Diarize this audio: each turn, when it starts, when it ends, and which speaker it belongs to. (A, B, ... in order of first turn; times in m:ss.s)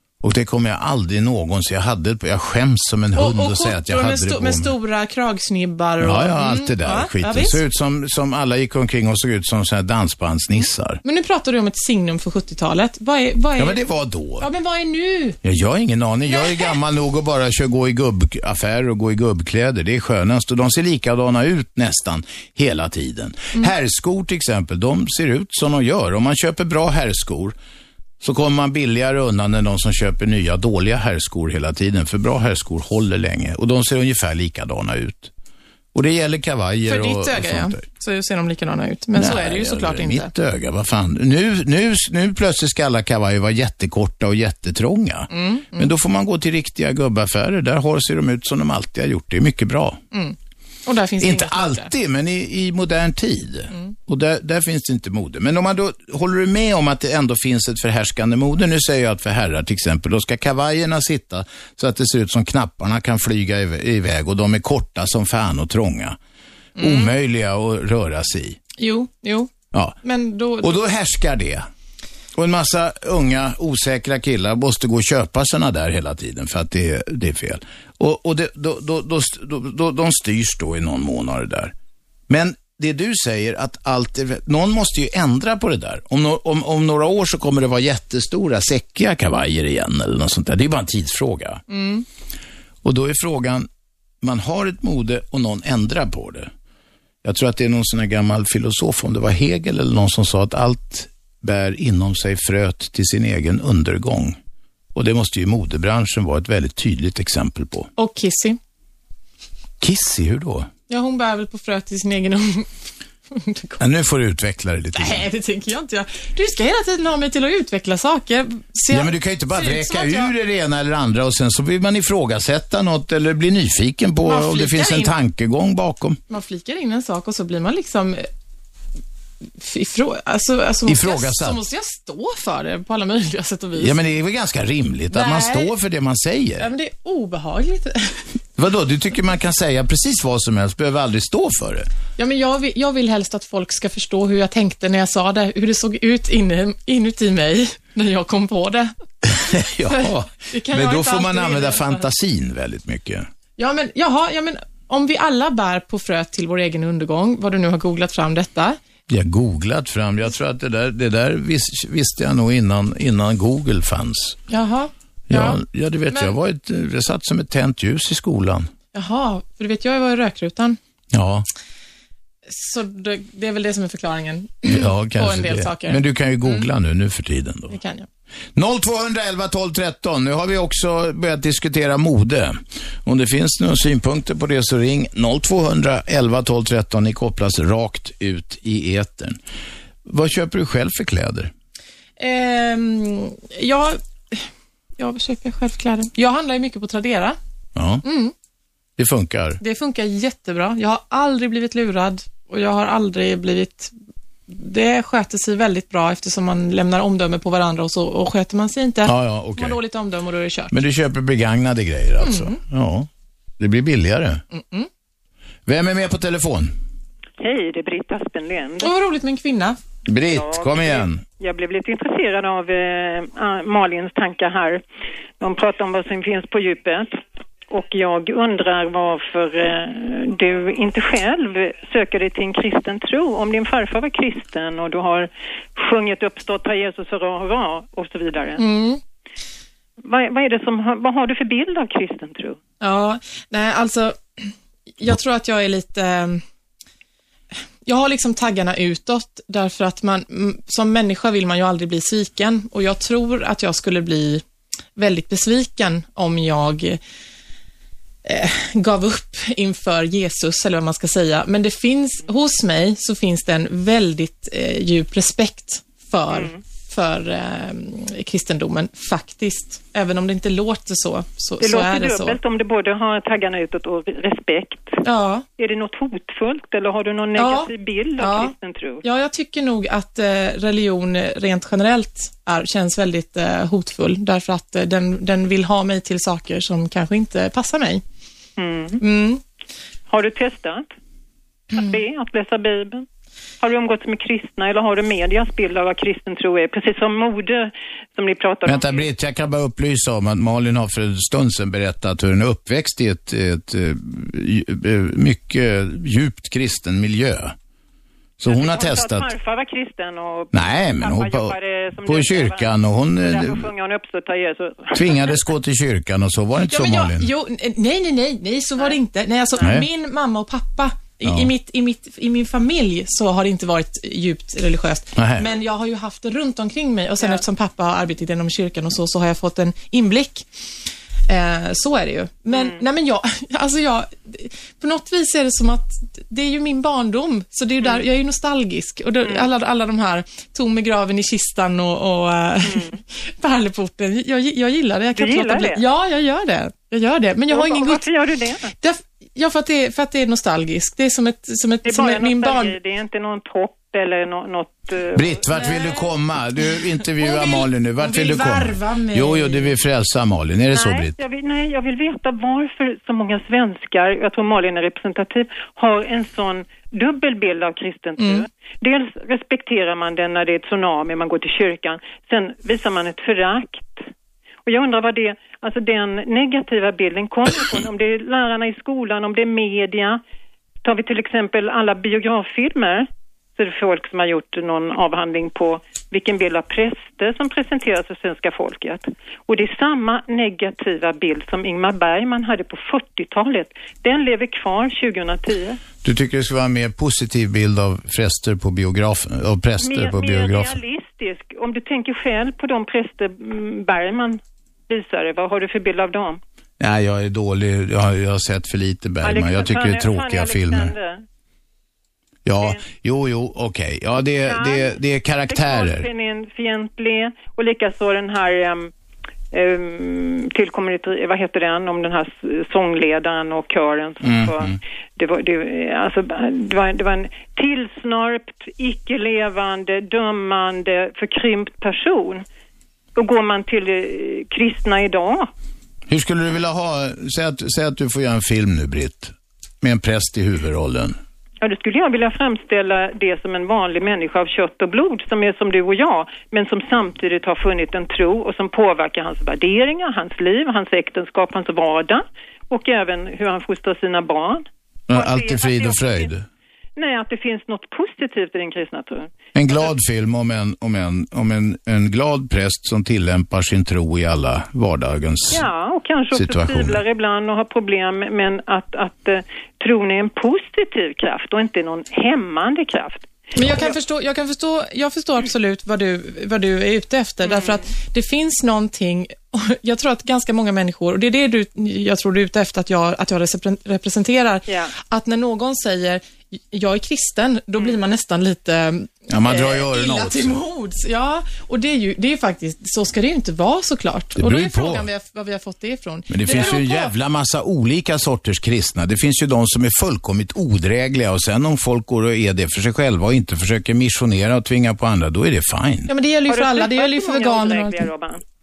0:00.2-0:04.7 A
0:03.1-0:07.6 B
0:06.0-0:11.0 A
0:11.0-0:13.8 B
0:13.6-0:14.5 A
0:14.4-0:15.4 B
0:15.4-0:27.6 A
0:16.3-0:16.7 B
0:28.2-0:35.3 A
0:35.9-0:37.8 A
0:36.9-0:40.3 B
0:39.1-0:50.0 A
0:45.3-0:45.9 B
0:50.1-0:51.9 B
0:51.2-1:06.2 A
1:06.8-1:07.1 B
1:06.8-1:08.6 A
1:08.8-1:10.8 B
1:10.6-1:11.7 A
1:12.3-1:21.7 A
1:22.3-1:31.6 A
1:31.7-1:32.0 B
1:32.8-1:33.7 A
1:34.2-1:36.5 A
1:37.2-1:44.4 A
1:44.9-1:47.9 A
1:48.0-1:48.6 B
1:49.8-1:50.7 A
1:50.9-1:52.7 B
1:53.3-1:53.8 B
1:53.8-1:55.2 A
1:55.0-2:00.3 B
1:58.9-2:06.2 A
2:04.2-2:05.1 B
2:06.3-2:08.3 B
2:09.6-2:14.0 B
2:10.9-2:11.6 A
2:13.8-2:16.7 A
2:15.1-2:15.7 B
2:16.6-2:18.2 B
2:18.6-2:21.9 A
2:22.2-2:28.9 B
2:29.2-2:33.3 A
2:29.8-2:32.1 B
2:33.6-2:38.8 B
2:39.1-2:44.4 A
2:44.5-2:46.3 B
2:45.3-2:48.7 A
2:48.9-2:50.8 B
2:51.1-2:51.4 A
2:52.5-2:56.7 B
2:54.6-2:57.7 A
2:57.7-2:58.1 B
2:58.6-3:09.4 A
3:10.0-3:11.5 A
3:12.2-3:17.4 B
3:17.8-3:18.0 A
3:18.0-3:18.3 B
3:19.0-3:19.6 A
3:19.6-3:23.9 B
3:24.5-3:30.8 B
3:29.0-3:29.8 A
3:30.7-3:34.4 A
3:32.2-3:32.6 B
3:34.5-3:34.9 B
3:35.6-3:36.7 A
3:37.4-3:38.9 C
3:38.8-3:39.8 B
3:40.0-3:41.2 A
3:40.3-3:44.8 C
3:45.4-3:47.1 C
3:47.7-3:58.6 C
3:58.6-3:59.0 B
4:00.0-4:02.6 C
4:02.8-4:06.4 B
4:07.9-4:14.4 B
4:15.0-4:17.0 B
4:18.2-4:32.4 B
4:26.3-4:26.6 C
4:31.6-4:35.0 C
4:35.0-4:35.4 B
4:35.6-4:39.0 C
4:37.4-4:48.0 B
4:48.6-4:49.0 C
4:49.0-4:49.4 B
4:50.1-4:50.9 C
4:51.7-4:53.0 C
4:53.6-4:59.1 C
4:58.6-5:07.6 A
5:08.4-5:09.3 A
5:08.4-5:15.4 C
5:10.5-5:13.7 A
5:14.9-5:17.3 A
5:16.6-5:30.4 B
5:19.6-5:19.9 A
5:21.2-5:21.5 A
5:25.2-5:25.4 A
5:31.3-5:48.1 B
5:32.5-5:32.8 C
5:39.2-5:39.5 C
5:42.6-5:43.0 C
5:45.2-5:45.8 C
5:47.5-5:48.7 C
5:48.8-5:52.8 B
5:51.8-5:56.1 C
5:55.1-6:01.2 A
5:57.2-5:59.7 B
6:00.7-6:14.1 C
6:08.2-6:08.4 B
6:14.6-6:20.2 C
6:20.8-6:35.8 C
6:36.0-6:40.8 A
6:39.8-6:46.4 C
6:46.8-6:50.9 A
6:49.2-6:51.2 C
6:52.4-6:56.1 A
6:54.4-6:58.9 C
6:59.5-7:12.4 C
7:04.2-7:04.8 A
7:13.1-7:15.5 C
7:16.1-7:21.2 A
7:21.6-7:36.3 C
7:35.1-7:36.4 A
7:37.0-7:39.9 C
7:39.6-7:45.7 A
7:45.5-7:53.9 C
7:46.3-7:47.0 A
7:53.6-7:53.9 A
7:53.6-8:17.1 B
7:57.4-7:57.9 C
8:04.7-8:04.9 C
8:09.3-8:10.6 A
8:14.4-8:15.0 A
8:16.3-8:26.1 A
8:16.4-8:16.8 C
8:26.1-8:28.1 B
8:26.5-8:28.4 C